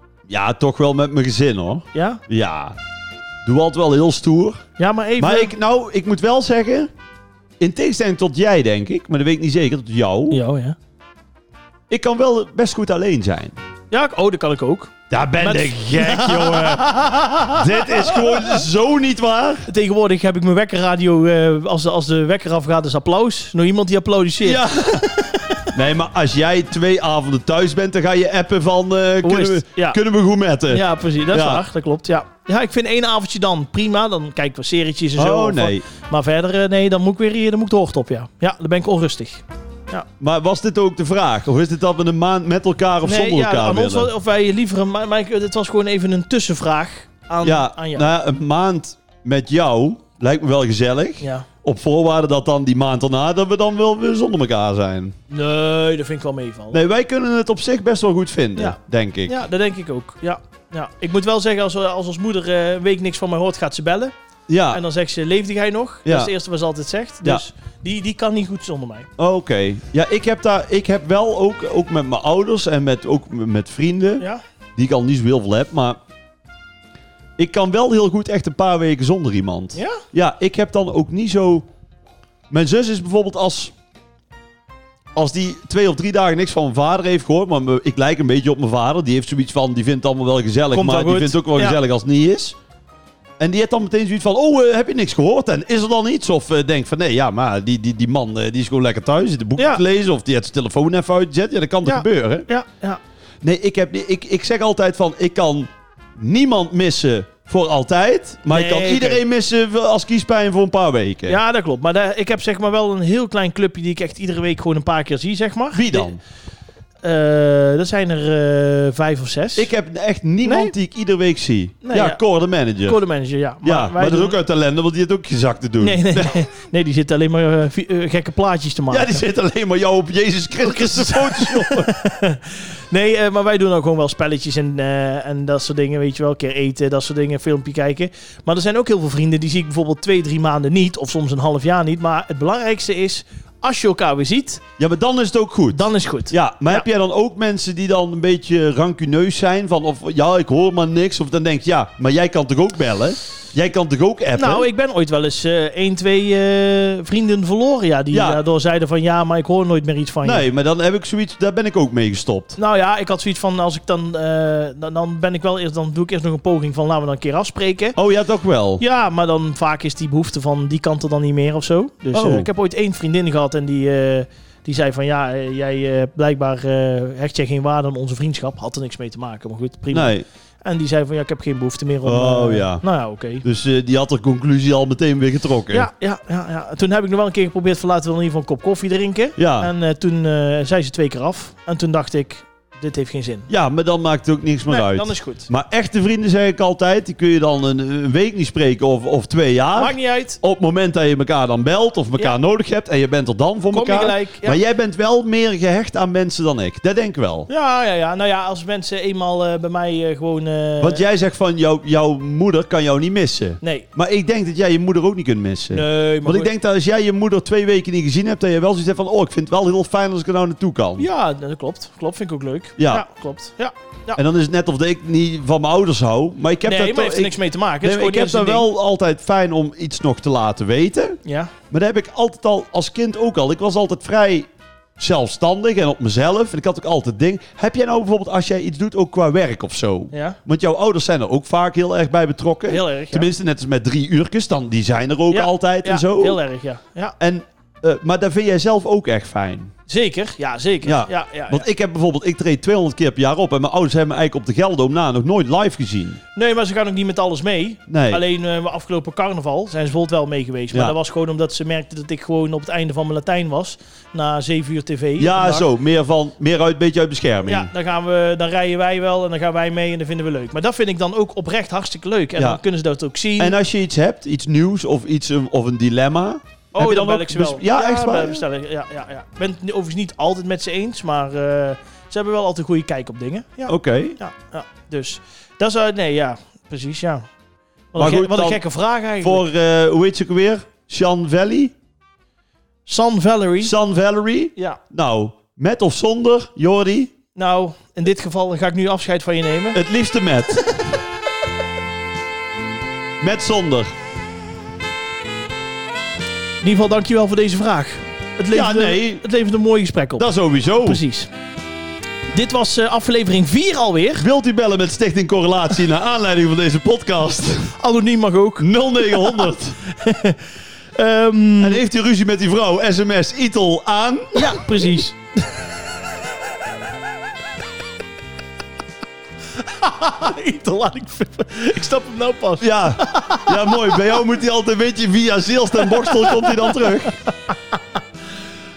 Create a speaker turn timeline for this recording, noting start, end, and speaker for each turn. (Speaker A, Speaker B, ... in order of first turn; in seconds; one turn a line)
Speaker A: 0.3-2.8
Speaker B: 1.9-2.2
Speaker A: 3.5-4.6
Speaker B: 4.8-5.5
Speaker A: 5.2-6.9
Speaker A: 7.6-10.4
Speaker B: 10.3-10.8
Speaker A: 11.9-13.6
Speaker B: 13.9-18.6
Speaker A: 15.1-19.7
Speaker B: 19.7-25.7
Speaker A: 24.4-25.1
Speaker A: 25.7-31.6
Speaker B: 29.2-30.0
Speaker B: 30.7-40.1
Speaker A: 35.2-35.9
Speaker A: 40.2-44.1
Speaker B: 43.0-48.1
Speaker A: 47.4-55.1
Speaker B: 51.2-51.5
Speaker B: 55.3-56.8
Speaker A: 56.7-59.4
Speaker B: 58.6-64.1
Speaker A: 64.5-64.8
Speaker B: 64.7-69.1
Speaker A: 66.0-66.3
Speaker A: 69.2-74.2
Speaker A: 74.8-76.0
Speaker A: 77.4-81.7
Speaker B: 79.8-80.0
Speaker A: 82.5-83.7
Speaker A: 85.2-92.6
Speaker B: 90.7-91.8
Speaker A: 93.4-102.5
Speaker B: 99.6-99.8
Speaker B: 101.8-103.0
Speaker A: 103.4-111.4
Speaker B: 108.5-109.2
Speaker B: 111.3-116.1
Speaker A: 115.7-116.2
Speaker B: 117.0-119.7
Speaker A: 119.6-123.0
Speaker B: 120.4-120.7
Speaker B: 121.8-122.2
Speaker B: 122.8-124.4
Speaker A: 123.6-126.3
Speaker B: 125.8-129.2
Speaker A: 128.9-131.9
Speaker B: 130.6-144.6
Speaker A: 144.8-154.7
Speaker B: 145.7-146.9
Speaker B: 154.4-160.5
Speaker A: 158.1-158.4
Speaker A: 160.2-162.6
Speaker B: 162.6-168.0
Speaker A: 168.0-168.8
Speaker B: 168.8-183.4
Speaker A: 172.1-172.5
Speaker A: 179.9-180.3
Speaker A: 182.0-182.8
Speaker A: 183.4-185.9
Speaker B: 185.7-193.5
Speaker A: 189.4-189.7
Speaker A: 193.5-207.5
Speaker B: 194.7-195.5
Speaker B: 199.8-200.4
Speaker B: 203.7-204.6
Speaker B: 207.5-211.0
Speaker A: 210.8-221.1
Speaker B: 215.7-216.5
Speaker B: 221.0-224.2
Speaker A: 222.8-223.1
Speaker A: 224.2-231.2
Speaker B: 226.6-228.7
Speaker B: 231.2-231.5
Speaker A: 231.7-246.4
Speaker B: 240.1-240.4
Speaker B: 242.7-243.3
Speaker B: 245.3-247.2
Speaker A: 247.2-249.7
Speaker B: 249.9-251.7
Speaker A: 250.8-256.2
Speaker B: 256.4-265.7
Speaker A: 257.9-258.2
Speaker A: 265.2-267.7
Speaker B: 267.5-273.6
Speaker A: 272.4-272.6
Speaker A: 273.4-278.4
Speaker B: 276.7-287.3
Speaker A: 283.7-284.2
Speaker B: 287.9-289.4
Speaker A: 288.0-288.6
Speaker A: 289.2-291.7
Speaker B: 292.9-293.7
Speaker A: 293.6-297.1
Speaker B: 297.4-299.8
Speaker A: 299.7-300.9
Speaker A: 303.2-303.9
Speaker B: 306.6-310.3
Speaker A: 308.5-309.2
Speaker A: 310.2-311.0
Speaker B: 310.8-311.3
Speaker B: 312.3-314.3
Speaker A: 314.2-317.8
Speaker B: 317.8-321.8
Speaker A: 318.6-319.8
Speaker A: 321.6-324.9
Speaker B: 324.3-325.6
Speaker B: 329.5-334.2
Speaker A: 332.6-337.2
Speaker B: 335.8-337.8